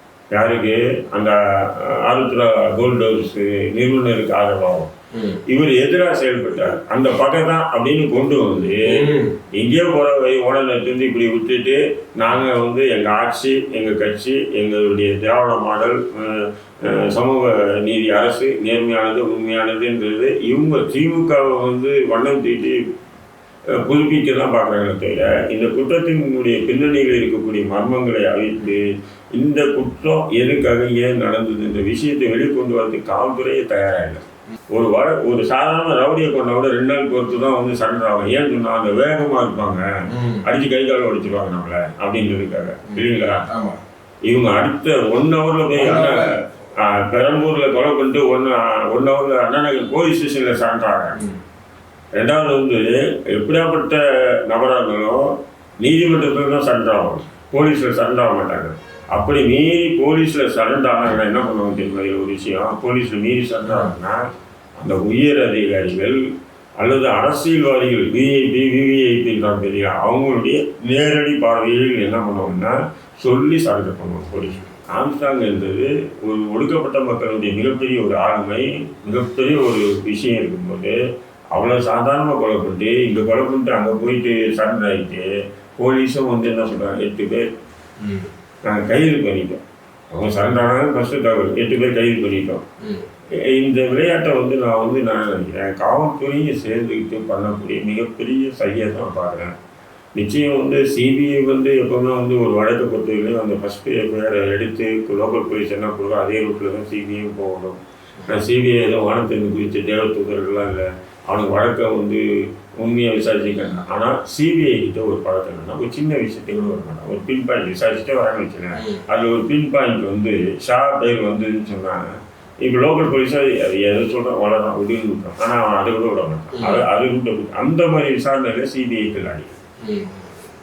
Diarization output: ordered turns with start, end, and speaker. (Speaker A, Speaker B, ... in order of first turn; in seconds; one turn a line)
Speaker A: 0.3-4.9
Speaker B: 5.1-5.4
Speaker A: 5.5-22.8
Speaker B: 8.8-9.3
Speaker A: 23.8-28.8
Speaker A: 29.4-34.2
Speaker A: 34.7-39.9
Speaker B: 40.1-40.4
Speaker A: 40.4-43.4
Speaker B: 42.9-43.8
Speaker A: 44.2-46.2
Speaker B: 45.8-46.4
Speaker A: 46.8-51.2
Speaker A: 52.1-55.2
Speaker A: 55.8-64.2
Speaker B: 63.6-63.9
Speaker A: 64.8-66.2
Speaker A: 66.8-81.0
Speaker B: 74.4-74.7
Speaker A: 81.5-85.2
Speaker A: 85.8-87.5
Speaker B: 88.0-88.3
Speaker A: 88.6-92.6
Speaker A: 93.4-99.5
Speaker A: 100.2-112.2
Speaker A: 112.8-122.0
Speaker B: 113.6-113.8
Speaker B: 118.8-119.0
Speaker A: 122.6-129.6
Speaker B: 126.6-126.8
Speaker B: 129.9-130.3